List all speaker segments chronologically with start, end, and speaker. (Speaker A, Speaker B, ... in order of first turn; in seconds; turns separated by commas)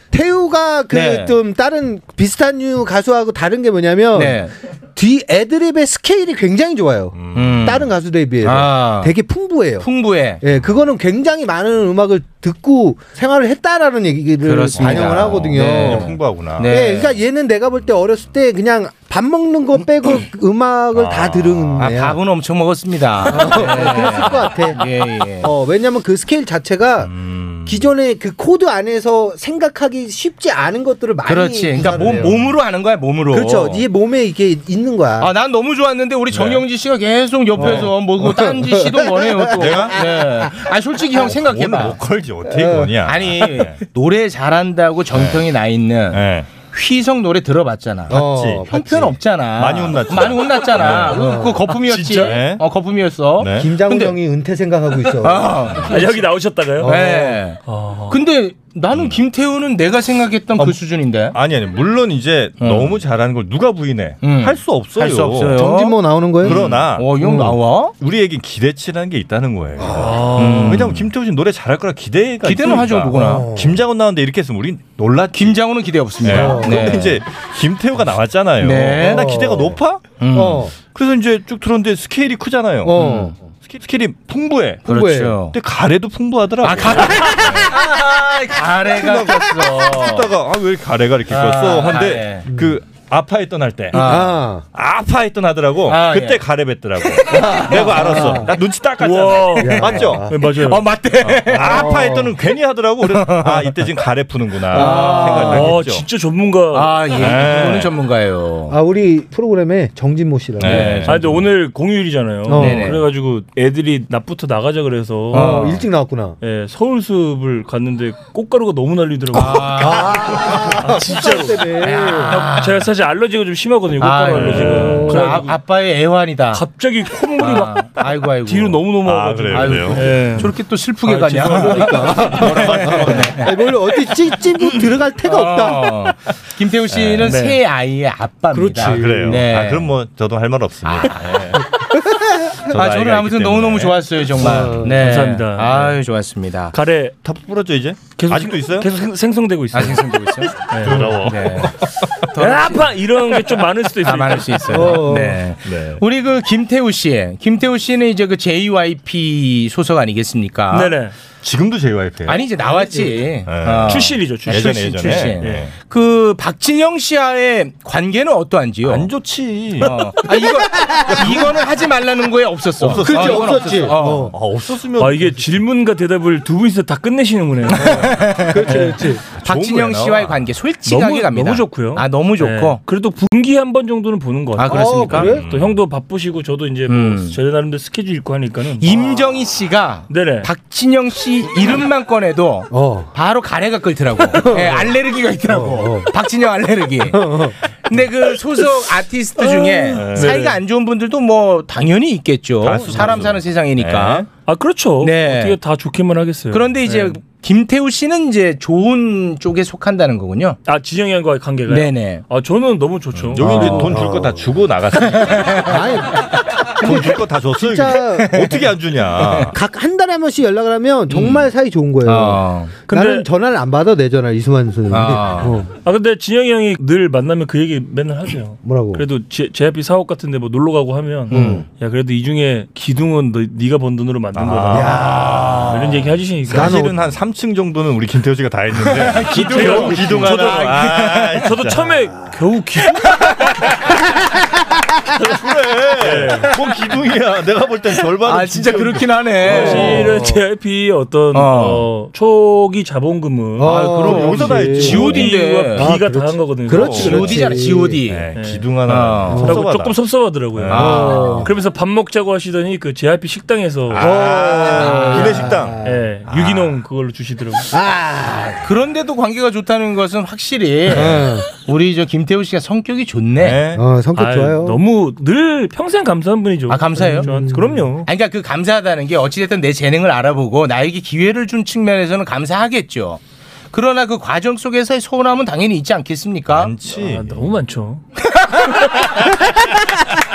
Speaker A: 0.1-4.4, Speaker B: 0.9-1.3, Speaker B: 4.1-4.5, Speaker A: 5.0-9.9, Speaker C: 7.1-7.7, Speaker B: 7.3-7.9, Speaker B: 8.4-9.2, Speaker B: 9.8-10.4, Speaker A: 10.4-22.2, Speaker B: 14.4-17.1, Speaker C: 14.8-16.7, Speaker C: 20.9-21.9, Speaker B: 21.8-25.5, Speaker A: 23.2-24.9, Speaker A: 25.4-27.1, Speaker C: 27.0-27.9, Speaker A: 27.6-32.5, Speaker B: 31.2-33.8, Speaker C: 32.1-32.5, Speaker A: 33.3-35.3, Speaker B: 35.2-42.0, Speaker C: 36.3-36.6, Speaker C: 37.5-37.9, Speaker A: 37.6-39.8, Speaker C: 39.6-40.0, Speaker C: 41.2-43.8, Speaker A: 42.5-43.0, Speaker B: 43.0-54.1, Speaker C: 45.1-45.5, Speaker C: 46.1-46.5, Speaker A: 48.1-49.1, Speaker C: 48.1-48.6, Speaker C: 49.5-52.6, Speaker A: 50.9-51.6, Speaker C: 53.4-53.7, Speaker A: 53.5-56.0, Speaker B: 55.2-56.0, Speaker D: 55.9-56.9, Speaker A: 56.8-57.4, Speaker B: 56.8-61.4, Speaker D: 57.6-58.2, Speaker C: 58.9-59.2, Speaker C: 61.3-65.5, Speaker B: 62.6-63.0, Speaker B: 64.2-67.9, Speaker A: 65.5-67.5, Speaker C: 66.4-67.1, Speaker C: 68.0-75.6, Speaker A: 69.8-70.1, Speaker D: 70.0-70.8, Speaker B: 70.3-71.1, Speaker B: 72.4-73.5, Speaker A: 73.1-73.8, Speaker B: 75.3-77.2, Speaker C: 76.2-80.0, Speaker A: 76.3-77.0, Speaker B: 78.6-79.3, Speaker A: 79.0-79.8, Speaker B: 80.2-80.7, Speaker A: 80.3-80.7, Speaker C: 80.8-84.9, Speaker A: 82.8-83.3, Speaker B: 83.0-83.3, Speaker A: 84.9-85.3, Speaker B: 84.9-85.5, Speaker C: 85.5-87.8, Speaker B: 86.6-90.3, Speaker C: 88.9-94.2, Speaker B: 91.3-92.5, Speaker A: 92.5-92.8, Speaker B: 93.9-94.3, Speaker A: 94.0-94.7, Speaker C: 94.7-100.3, Speaker B: 95.9-96.4, Speaker B: 97.0-98.1, Speaker A: 97.5-98.5, Speaker D: 99.0-100.8, Speaker A: 99.6-100.3, Speaker B: 100.4-102.1, Speaker C: 101.2-106.0, Speaker A: 101.6-102.3, Speaker B: 103.0-103.8, Speaker B: 104.7-105.7, Speaker A: 104.7-105.7, Speaker D: 105.3-107.1, Speaker B: 106.7-108.8, Speaker C: 107.1-107.9, Speaker A: 108.7-111.0, Speaker C: 110.6-111.4, Speaker B: 110.6-111.2, Speaker D: 111.1-115.6, Speaker A: 112.5-112.9, Speaker B: 112.5-113.0, Speaker B: 115.3-115.8, Speaker A: 115.3-116.4, Speaker D: 116.4-120.1, Speaker B: 119.3-120.6, Speaker A: 119.8-122.4, Speaker D: 120.8-125.5, Speaker B: 121.8-122.9, Speaker B: 124.0-126.6, Speaker C: 124.5-125.0, Speaker A: 124.7-125.4, Speaker D: 126.5-130.5, Speaker B: 127.4-128.8, Speaker C: 129.0-130.2, Speaker B: 129.5-133.5, Speaker A: 131.2-135.9, Speaker D: 131.4-132.0, Speaker C: 132.3-133.5, Speaker B: 135.2-139.9, Speaker C: 136.9-137.3, Speaker D: 137.2-137.6, Speaker A: 138.5-139.4, Speaker C: 138.7-141.7, Speaker B: 140.8-141.6, Speaker C: 142.6-144.7, Speaker B: 142.7-146.7, Speaker A: 144.4-145.0, Speaker D: 144.9-146.0, Speaker D: 146.7-147.2, Speaker C: 147.2-148.9, Speaker D: 148.1-150.1, Speaker B: 149.7-152.9, Speaker D: 150.7-151.2, Speaker C: 150.8-151.9, Speaker D: 152.3-154.9, Speaker B: 154.0-160.9, Speaker A: 154.7-155.4, Speaker C: 155.7-156.0, Speaker D: 160.7-161.1, Speaker C: 161.4-162.4, Speaker B: 162.2-169.1, Speaker A: 162.6-163.2, Speaker C: 163.5-165.7, Speaker D: 163.9-165.7, Speaker C: 168.8-170.1, Speaker B: 169.8-174.3, Speaker C: 172.8-175.5, Speaker A: 172.9-174.3, Speaker D: 175.0-177.9, Speaker A: 177.8-179.2, Speaker B: 177.8-178.8, Speaker D: 178.7-179.0, Speaker C: 179.3-180.5, Speaker B: 179.4-182.8, Speaker D: 180.8-188.9, Speaker B: 184.6-185.3, Speaker A: 184.7-185.4, Speaker C: 185.1-185.8, Speaker B: 186.9-187.4, Speaker B: 188.8-204.3, Speaker D: 190.1-190.5, Speaker A: 192.7-193.1, Speaker A: 194.3-196.1, Speaker A: 197.1-197.6, Speaker C: 199.9-200.3, Speaker D: 200.0-200.6, Speaker C: 202.6-204.3, Speaker D: 204.4-207.2, Speaker B: 205.0-205.6, Speaker B: 206.5-210.6, Speaker D: 210.7-213.9, Speaker B: 211.7-212.2, Speaker C: 213.2-215.7, Speaker A: 213.4-214.4, Speaker B: 215.1-215.7, Speaker A: 215.6-218.4, Speaker C: 216.8-219.5, Speaker B: 218.2-218.7, Speaker B: 219.2-219.5, Speaker A: 219.4-225.7, Speaker B: 221.1-221.5, Speaker B: 222.0-222.7, Speaker D: 222.9-223.2, Speaker B: 224.9-225.6, Speaker D: 225.8-235.0, Speaker A: 228.6-229.0, Speaker B: 231.3-231.6, Speaker A: 231.3-231.6, Speaker C: 234.3-235.8, Speaker A: 234.7-235.6, Speaker B: 234.8-236.0, Speaker D: 235.7-236.8, Speaker C: 236.5-242.1, Speaker A: 236.5-237.0, Speaker B: 238.8-241.5, Speaker D: 239.3-243.1, Speaker B: 243.1-243.5, Speaker C: 245.2-250.0, Speaker D: 246.0-246.5, Speaker B: 248.2-250.1, Speaker D: 249.4-253.7, Speaker A: 249.4-250.4, Speaker B: 251.3-251.8, Speaker A: 253.6-258.0, Speaker B: 253.6-255.9, Speaker C: 253.8-255.3, Speaker D: 254.8-257.3, Speaker C: 256.7-257.3, Speaker B: 256.8-258.3, Speaker C: 258.0-260.0, Speaker D: 258.3-258.6, Speaker B: 258.9-259.6, Speaker A: 259.3-259.6, Speaker D: 259.4-260.9, Speaker C: 260.5-261.4, Speaker B: 260.7-261.5, Speaker A: 260.7-261.5, Speaker D: 261.4-264.1, Speaker C: 263.9-266.8, Speaker A: 264.0-266.0, Speaker B: 264.6-265.5, Speaker D: 265.1-267.7, Speaker A: 267.7-268.6, Speaker B: 268.5-273.6, Speaker A: 270.9-271.5, Speaker C: 273.4-273.8, Speaker A: 273.7-274.8, Speaker D: 274.1-278.1, Speaker B: 276.7-277.4, Speaker A: 276.9-277.9, Speaker B: 278.0-283.2, Speaker B: 283.7-286.7, Speaker C: 286.5-287.4, Speaker D: 286.9-288.0, Speaker B: 288.3-288.9